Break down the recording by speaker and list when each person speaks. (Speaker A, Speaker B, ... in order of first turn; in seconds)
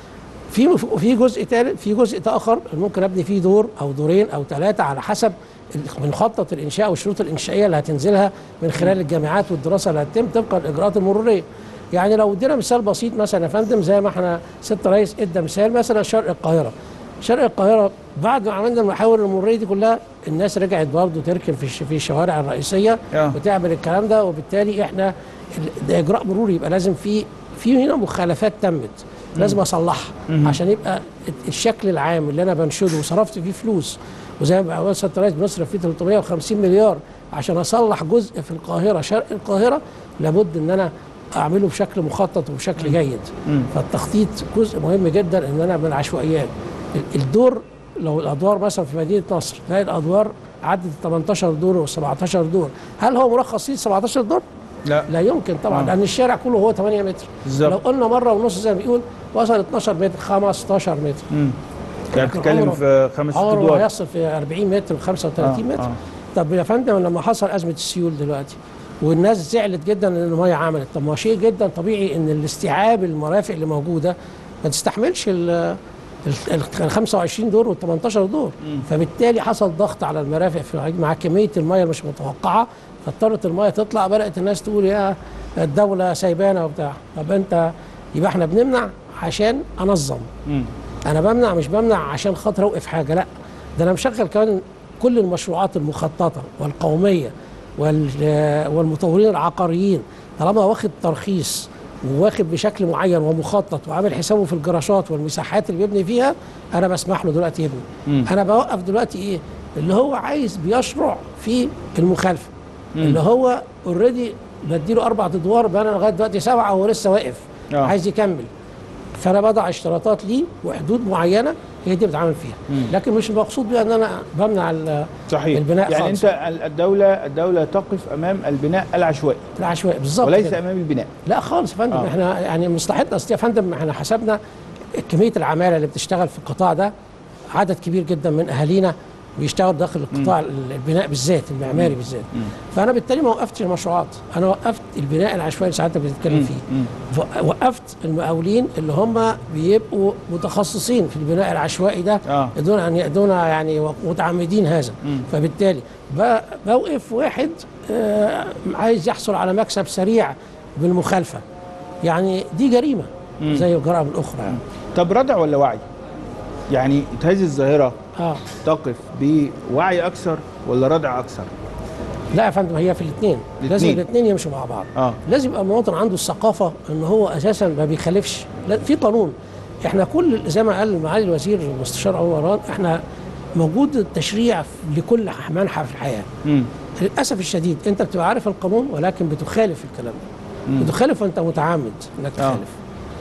Speaker A: 0.5-54.4, 55.1-61.3, 62.1-62.8, 63.3-90.3, 91.1-112.5, 113.0-118.5, 119.2-126.3, 129.6-130.6, 131.3-134.4, 135.0-136.9, 137.5-161.4, 162.1-164.6, 168.2-168.4, 172.3-183.0, 183.6-186.3, 187.0-190.2, 190.8-192.8
Speaker B: 30.3-30.6, 57.5-57.8, 61.3-61.6, 62.1-63.9, 65.4-66.0, 113.0-113.2, 125.3-129.5, 130.2-131.1, 141.7-142.5, 146.3-146.9, 152.3-152.6, 163.4-163.7, 164.5-165.9, 166.7-168.0, 168.6-171.5, 173.6-174.0, 190.7-190.9, 192.4-192.6